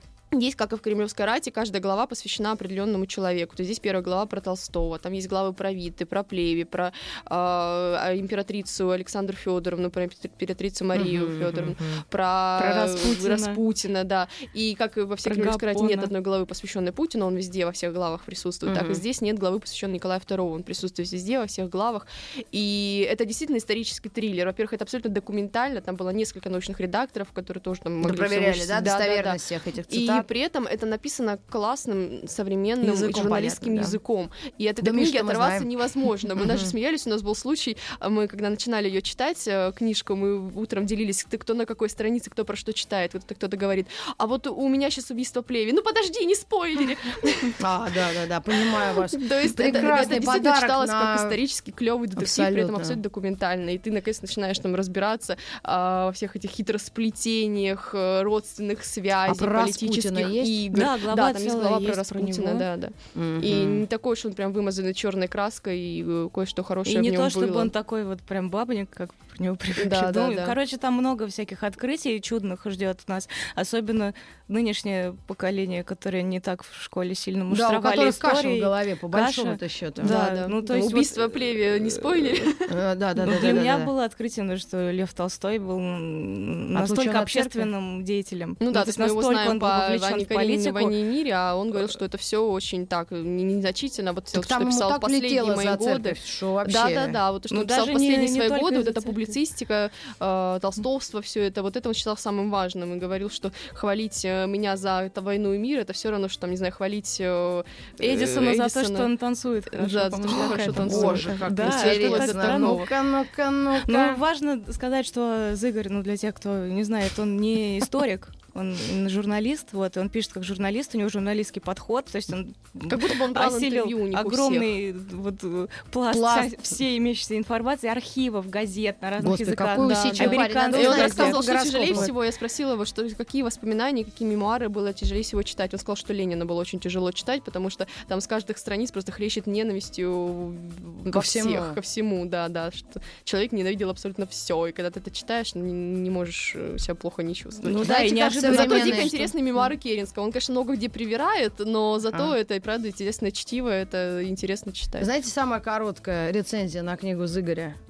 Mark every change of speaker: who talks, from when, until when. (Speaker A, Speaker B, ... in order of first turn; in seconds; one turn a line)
Speaker A: 0.3-47.6
Speaker B: 10.9-12.0
Speaker C: 12.6-13.6
Speaker C: 15.2-16.1
Speaker B: 18.7-19.0
Speaker B: 28.0-30.3
Speaker B: 32.8-34.0
Speaker B: 34.8-35.7
Speaker B: 36.4-36.7
Speaker B: 47.6-51.4
Speaker A: 49.1-67.7
Speaker B: 52.2-53.0
Speaker B: 59.3-60.6
Speaker C: 60.7-62.7
Speaker B: 63.1-63.8
Speaker C: 66.9-82.5
Speaker A: 69.8-70.5
Speaker B: 77.5-80.1
Speaker A: 80.0-82.7
Speaker B: 82.7-83.9
Speaker C: 83.2-91.0
Speaker B: 86.7-87.7
Speaker A: 88.6-109.1
Speaker B: 94.3-97.2
Speaker C: 97.5-99.3
Speaker C: 108.0-113.0
Speaker A: 109.7-112.9
Speaker B: 110.3-114.2
Speaker C: 113.8-132.1
Speaker A: 122.9-124.7
Speaker B: 126.1-126.6
Speaker B: 129.2-132.1
Speaker A: 129.8-155.1
Speaker B: 141.1-141.8
Speaker C: 147.6-149.3
Speaker B: 147.8-149.1
Speaker B: 155.0-157.8